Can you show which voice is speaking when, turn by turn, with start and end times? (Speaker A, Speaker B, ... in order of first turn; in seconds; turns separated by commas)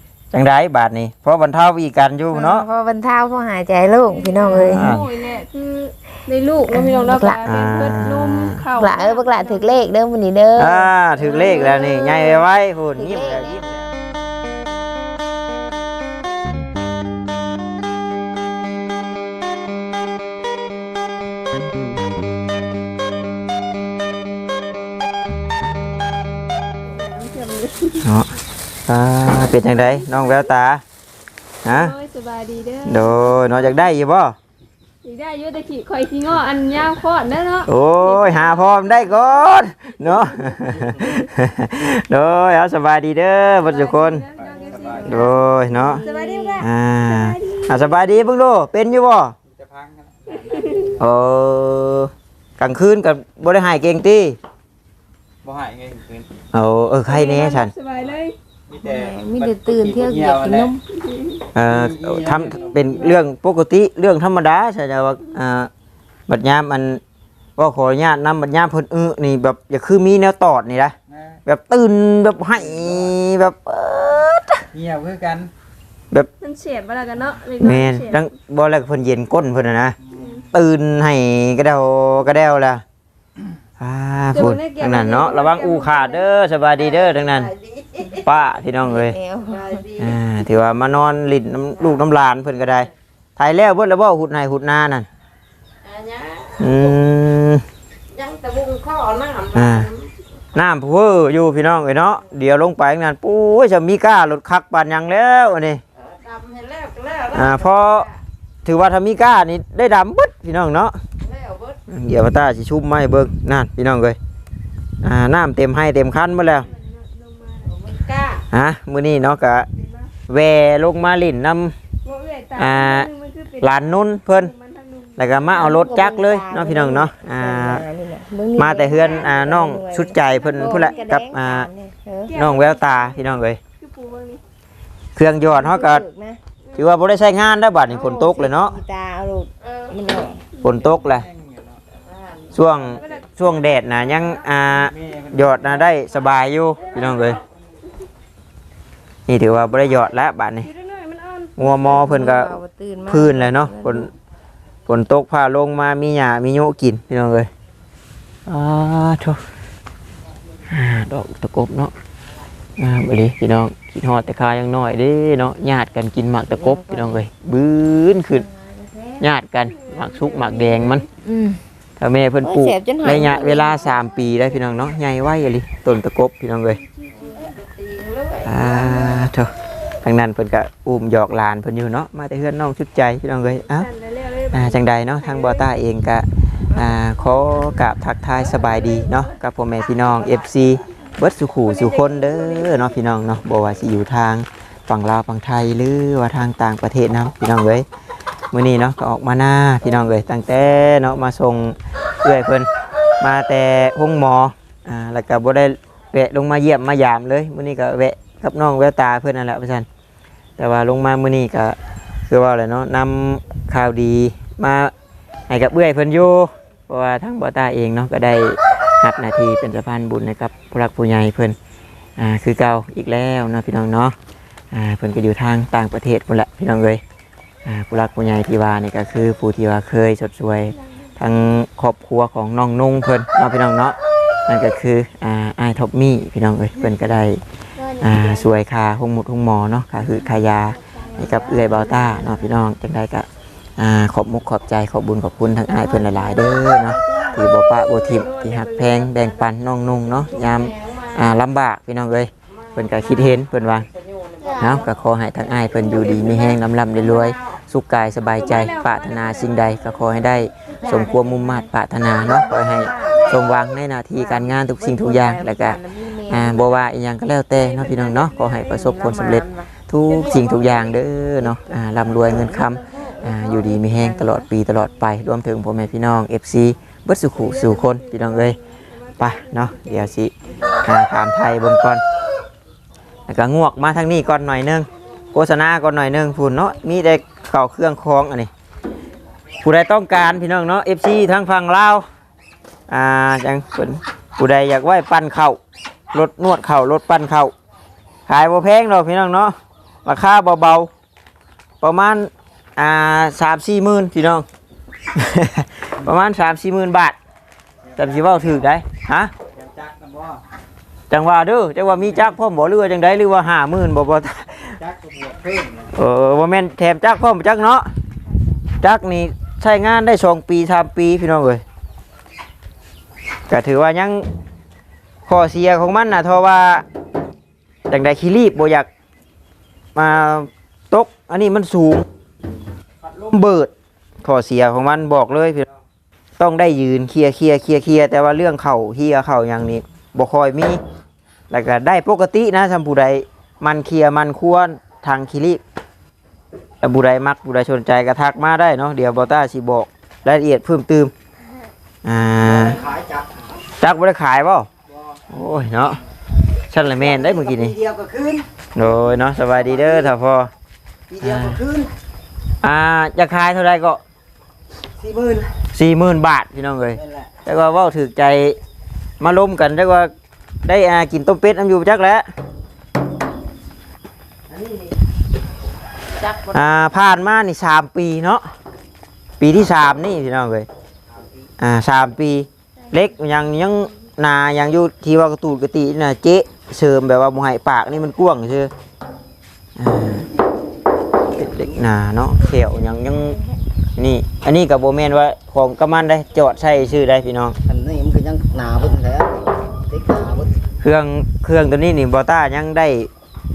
Speaker A: 0.3-2.6, Speaker B: 2.3-4.9, Speaker C: 4.1-9.7, Speaker A: 4.7-5.1, Speaker B: 6.7-7.4, Speaker A: 7.4-8.6, Speaker B: 8.8-11.6, Speaker A: 10.6-13.8, Speaker C: 11.2-12.4, Speaker B: 12.9-13.6, Speaker C: 26.8-28.1, Speaker A: 28.0-28.3, Speaker A: 28.9-30.8, Speaker A: 31.6-31.9, Speaker C: 31.6-33.2, Speaker A: 32.9-34.4, Speaker C: 35.0-39.2, Speaker A: 37.7-44.2, Speaker C: 43.6-47.9, Speaker D: 44.4-45.3, Speaker B: 44.6-46.6, Speaker A: 45.0-46.0, Speaker A: 46.6-49.4, Speaker D: 49.5-51.0, Speaker C: 50.3-50.9, Speaker A: 51.0-54.4, Speaker D: 55.4-56.3, Speaker A: 56.5-57.7, Speaker C: 57.0-58.3, Speaker D: 58.7-60.8, Speaker B: 58.8-60.8, Speaker C: 60.9-61.4, Speaker A: 61.5-65.7, Speaker D: 61.6-62.8, Speaker A: 66.3-67.0, Speaker A: 67.6-74.7, Speaker D: 71.1-71.4, Speaker D: 72.5-73.1, Speaker D: 74.7-75.5, Speaker C: 76.4-78.2, Speaker A: 77.6-80.0, Speaker D: 80.0-80.5, Speaker C: 80.1-80.5, Speaker A: 80.5-82.8, Speaker A: 83.8-87.5, Speaker C: 84.3-86.2, Speaker E: 86.8-88.3, Speaker A: 88.2-89.2, Speaker B: 88.9-89.8, Speaker E: 89.4-90.2, Speaker A: 90.0-95.1, Speaker E: 95.8-96.9, Speaker A: 96.6-97.6, Speaker E: 98.1-100.1, Speaker A: 99.5-99.9, Speaker A: 100.5-105.8, Speaker E: 106.0-108.1, Speaker A: 107.3-108.1, Speaker A: 108.6-111.0, Speaker E: 111.2-111.8, Speaker A: 111.9-114.2, Speaker A: 115.0-116.7, Speaker C: 116.5-117.7, Speaker E: 117.7-118.4, Speaker A: 118.5-119.7, Speaker C: 119.7-120.1, Speaker A: 120.3-121.8, Speaker C: 122.0-125.2, Speaker A: 122.6-123.1, Speaker A: 123.6-124.5, Speaker A: 125.2-127.8, Speaker B: 125.5-132.3, Speaker A: 128.6-131.7, Speaker C: 130.3-130.9, Speaker C: 132.3-134.4, Speaker A: 132.3-133.6, Speaker A: 135.1-136.0, Speaker B: 135.5-136.4, Speaker A: 136.8-138.7, Speaker B: 137.8-140.4, Speaker A: 140.6-141.3, Speaker D: 140.6-141.8, Speaker E: 142.1-142.5, Speaker A: 142.5-147.4, Speaker D: 142.7-143.2, Speaker C: 143.0-143.9, Speaker D: 144.7-146.0, Speaker A: 149.3-150.7, Speaker C: 150.6-151.9, Speaker A: 151.6-152.5, Speaker B: 151.6-154.1, Speaker A: 153.1-154.1, Speaker A: 154.8-157.5, Speaker A: 158.4-159.4, Speaker A: 160.7-161.9, Speaker A: 162.8-168.4, Speaker B: 166.5-167.2, Speaker A: 169.2-171.1, Speaker C: 169.7-171.1, Speaker B: 171.2-171.6, Speaker A: 172.0-176.8, Speaker B: 172.4-173.9, Speaker E: 177.1-179.2, Speaker A: 178.4-183.9, Speaker C: 183.7-185.7, Speaker A: 184.5-197.8, Speaker C: 188.6-189.2, Speaker C: 191.6-192.9, Speaker A: 198.5-202.7, Speaker A: 203.2-209.9, Speaker A: 210.6-211.8, Speaker A: 212.3-214.9, Speaker A: 215.5-221.6, Speaker A: 222.2-224.2, Speaker A: 224.7-227.0, Speaker A: 227.6-233.9, Speaker A: 234.5-237.4, Speaker C: 237.8-238.5, Speaker A: 238.0-253.9, Speaker C: 241.1-241.9, Speaker E: 241.3-242.4, Speaker E: 245.8-247.4, Speaker C: 247.6-249.5, Speaker C: 250.1-250.7, Speaker E: 250.3-251.3, Speaker E: 252.7-254.9, Speaker A: 254.6-278.6, Speaker C: 255.9-256.5, Speaker C: 258.4-259.8, Speaker B: 260.8-261.7, Speaker B: 262.2-263.4, Speaker B: 264.1-266.8, Speaker C: 267.6-268.9, Speaker B: 268.8-269.7, Speaker B: 273.6-274.0, Speaker C: 277.3-280.9, Speaker A: 279.2-282.0, Speaker A: 283.3-288.5, Speaker A: 289.6-292.0, Speaker A: 292.9-295.6, Speaker A: 296.1-297.5, Speaker A: 298.3-300.9, Speaker A: 301.8-304.4, Speaker A: 305.1-307.2, Speaker D: 307.9-308.6, Speaker A: 308.0-309.3, Speaker D: 309.5-310.4, Speaker A: 311.1-314.8, Speaker D: 312.0-312.3, Speaker D: 314.8-315.9, Speaker A: 315.9-317.9, Speaker A: 318.8-321.6, Speaker A: 323.5-324.2, Speaker A: 325.2-326.8, Speaker A: 327.9-328.9, Speaker A: 329.9-332.1, Speaker A: 333.1-333.7, Speaker A: 334.2-335.7, Speaker A: 336.4-340.8, Speaker A: 341.5-345.6, Speaker A: 346.8-351.1, Speaker A: 352.0-352.8, Speaker F: 352.4-353.3, Speaker A: 353.8-354.7, Speaker A: 355.3-356.0, Speaker A: 356.7-357.8, Speaker F: 357.0-358.4, Speaker A: 358.7-360.5, Speaker F: 359.4-360.1, Speaker F: 361.1-361.9, Speaker A: 361.2-361.6, Speaker A: 362.6-364.0, Speaker F: 365.0-365.6, Speaker A: 365.7-368.6, Speaker F: 366.9-367.3, Speaker A: 369.2-370.1, Speaker A: 370.6-372.2, Speaker F: 374.5-374.9, Speaker F: 376.2-376.5, Speaker A: 376.5-378.5, Speaker A: 379.4-380.7, Speaker A: 381.6-388.7, Speaker A: 389.8-390.3, Speaker A: 391.3-393.4, Speaker A: 394.0-397.5, Speaker F: 397.7-400.5, Speaker A: 400.8-403.1